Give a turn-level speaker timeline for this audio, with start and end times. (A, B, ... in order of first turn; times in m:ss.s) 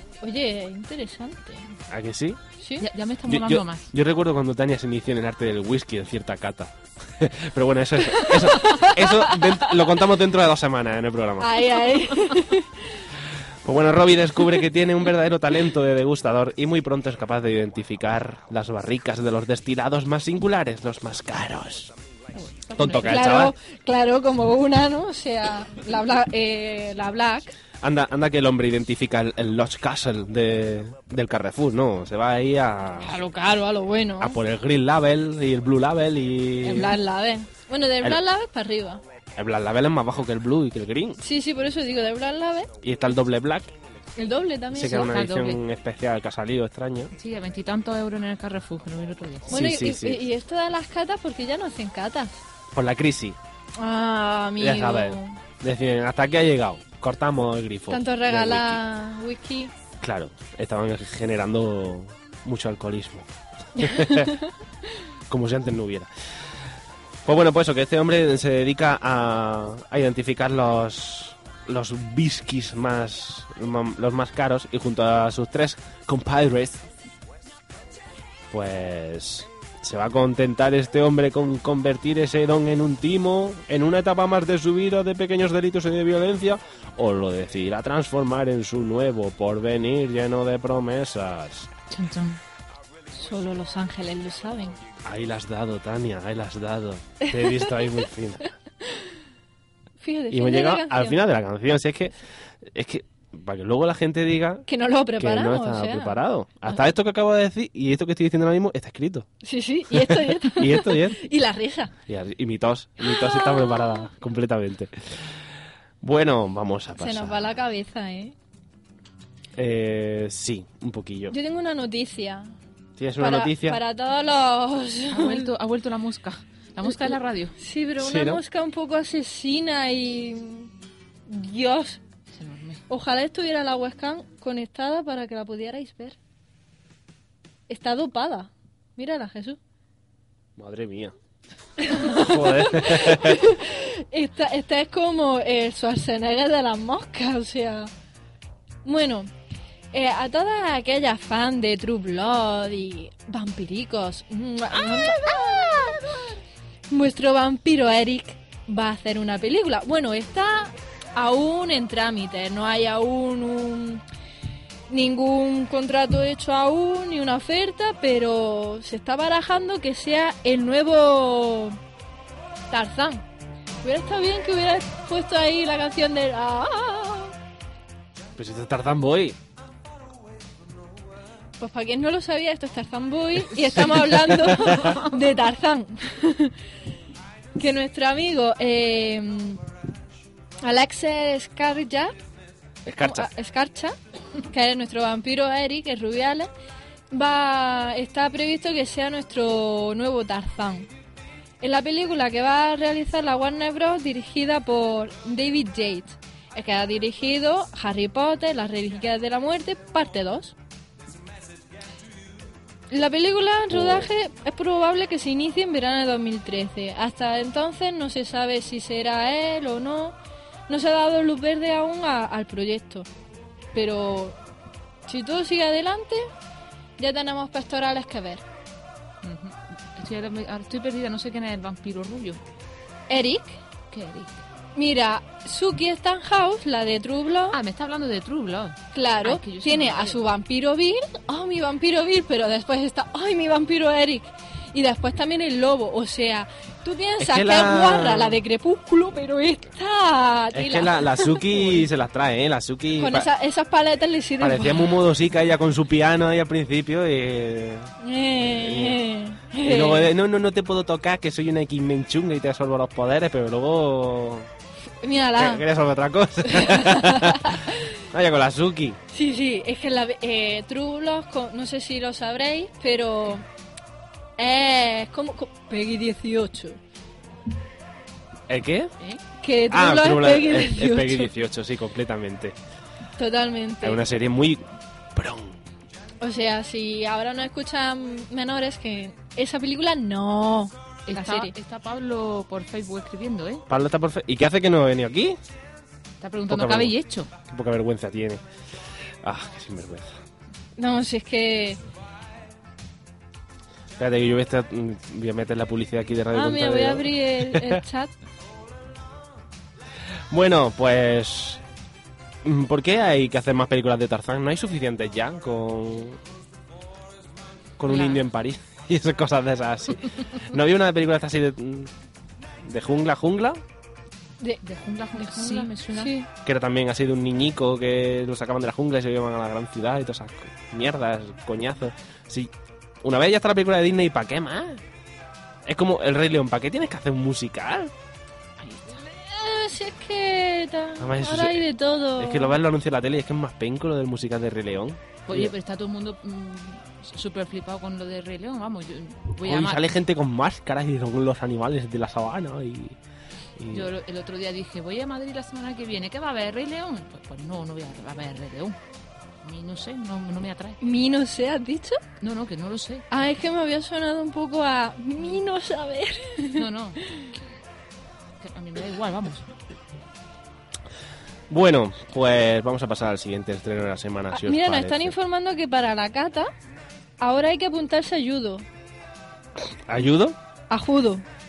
0:00.2-0:01.6 A
0:01.9-0:02.4 B
0:02.6-0:02.9 A
0:02.8-0:03.9 C
0:03.3-0:11.7 B
0:08.1-0:09.7 A
0:11.4-0:12.8 A
0:13.6-0:21.9 B
0:22.4-0:23.2 C
0:22.8-0:23.5 B
0:22.8-0:27.6 A
0:27.8-0:33.2 B
0:33.0-0:34.4 A
0:34.2-0:37.0 B
0:36.6-0:39.0 A
0:39.3-0:41.2 B
0:41.2-0:42.7 A
0:42.8-0:43.7 B
0:44.2-0:45.1 A
0:44.7-0:47.1 B
0:44.8-0:45.6 C
0:47.1-0:49.6 C
0:49.5-0:50.2 B
0:49.5-0:52.4 A
0:52.7-0:53.4 B
0:53.8-0:55.4 A
0:54.6-0:58.8 B
0:57.9-0:59.7 A
1:00.0-1:04.3 B
1:03.8-1:04.4 A
1:05.3-1:06.1 B
1:07.2-1:16.8 B
1:18.5-1:31.7 B
1:31.9-1:32.4 C
1:33.1-1:34.8 A
1:35.0-1:38.5 B
1:37.2-1:37.7 A
1:40.0-1:41.2 A
1:40.3-1:44.6 B
1:44.7-1:46.2 A
1:45.2-1:49.3 B
1:49.4-1:51.9 A
1:49.9-1:51.2 B
1:52.1-1:55.4 B
1:53.0-1:54.1 A
1:56.0-1:57.6 B
1:57.0-1:58.3 A
1:59.6-2:01.3 B
2:01.3-2:02.5 A
2:03.0-2:03.8 B
2:03.2-2:05.5 A
2:05.1-2:07.6 C
2:06.8-2:10.7 A
2:08.0-2:08.4 B
2:11.3-2:12.0 A
2:12.3-2:12.8 C
2:12.9-2:16.2 A
2:17.7-2:19.6 A
2:20.6-2:21.1 B
2:21.8-2:27.9 A
2:22.0-2:23.4 B
2:28.8-2:29.3 A
2:29.9-2:36.1 A
2:36.9-2:44.0 A
2:44.9-2:51.8 A
2:52.7-2:53.2 A
2:53.8-2:57.3 A
2:58.4-2:59.4 B
3:01.6-3:06.5 A
3:03.8-3:04.9 B
3:07.6-3:09.6 A
3:10.6-3:12.1 A
3:12.8-3:13.3 B
3:13.0-3:14.0 A
3:14.5-3:16.5 A
3:17.1-3:20.9 A
3:21.6-3:30.5 A
3:32.9-3:40.2 A
3:33.7-3:34.1 B
3:40.7-3:43.1 A
3:43.7-3:44.4 A
3:45.1-3:46.3 A
3:47.0-3:48.4 A
3:49.2-3:52.4 C
3:53.1-3:53.6 A
3:53.9-3:54.4 C
3:54.7-3:57.6 A
3:57.5-4:00.2 C
3:58.9-4:11.8 A
4:07.2-4:08.4 B
4:10.5-4:13.3 B
4:13.0-4:15.0 A
4:14.4-4:19.0 B
4:18.0-4:20.1 A
4:19.6-4:24.5 B
4:25.0-4:25.6 A
4:25.3-4:29.0 B
4:26.5-4:27.8 A
4:29.1-4:33.4 A
4:34.4-4:36.8 A
4:38.5-4:38.9 B
4:39.4-4:41.3 A
4:39.7-4:42.6 B
4:43.2-4:44.0 A
4:43.8-4:45.6 B
4:46.2-4:51.5 A
4:51.1-4:53.6 C
4:53.7-4:55.4 B
4:56.2-4:57.3 C
4:56.5-4:56.9 B
4:57.5-4:58.4 B
4:59.2-5:00.1 B
5:00.8-5:01.8 A
5:04.0-5:07.8 B
5:06.3-5:08.1 A
5:10.3-5:11.6 B
5:12.4-5:16.2 B
5:17.8-5:21.9 B
5:17.9-5:18.2 C
5:22.6-5:23.6 B
5:24.6-5:26.1 C
5:25.2-5:26.3 A
5:26.4-5:32.5 B
5:33.0-5:34.8 B
5:35.6-5:37.9 B
5:38.6-5:39.0 C
5:39.1-5:42.6 A
5:41.0-5:41.6 B
5:42.2-5:45.5 B
5:45.2-5:49.8 C
5:49.4-5:53.0 B
5:53.6-5:53.9 B
5:53.7-5:58.8 C
5:59.4-6:00.8 C
6:00.8-6:02.0 A
6:02.2-6:03.0 C
6:03.1-6:06.6 A
6:06.5-6:07.4 C
6:08.4-6:09.5 C
6:11.5-6:15.1 B
6:14.3-6:16.5 A
6:17.2-6:18.6 A
6:19.7-6:20.4 B
6:20.7-6:21.2 A